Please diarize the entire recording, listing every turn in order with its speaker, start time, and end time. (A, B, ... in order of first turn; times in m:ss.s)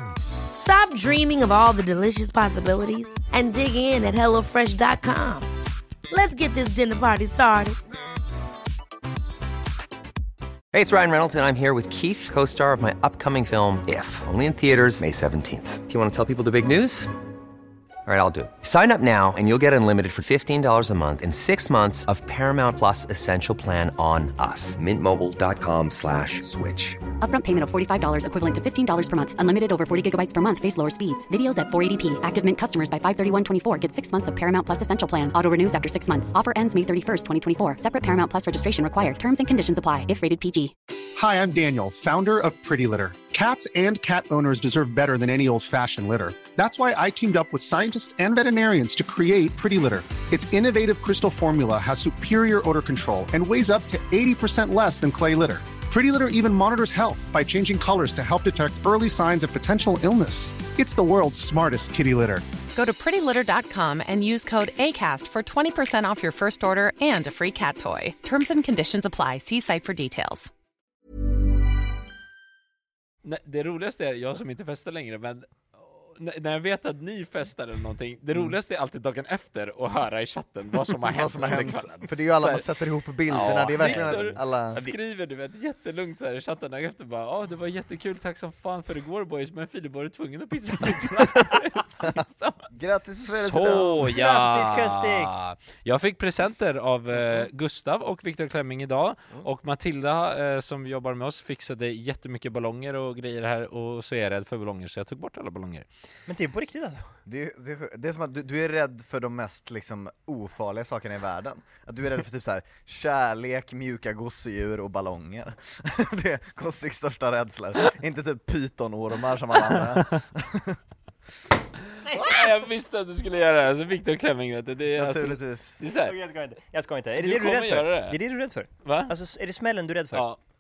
0:00.6-0:05.5 A
0:06.1-0:07.8 A
0:10.7-0:17.1 B
0:18.1-0:27.0 B
0:27.2-0:40.8 C
0:41.1-1:02.4 D
1:02.7-1:10.5 E
1:13.2-1:22.7 F
1:21.0-1:24.8 G
1:23.3-1:32.7 F
1:23.4-1:25.0 H
1:32.7-1:33.9 G
1:33.3-1:45.9 F
1:33.7-1:35.3 H
1:46.3-1:47.1 H
1:47.3-2:00.8 G
2:02.0-2:06.2 F
2:04.9-2:05.8 G
2:05.9-2:10.3 H
2:07.2-2:08.2 F
2:08.8-2:09.1 F
2:10.1-2:10.4 F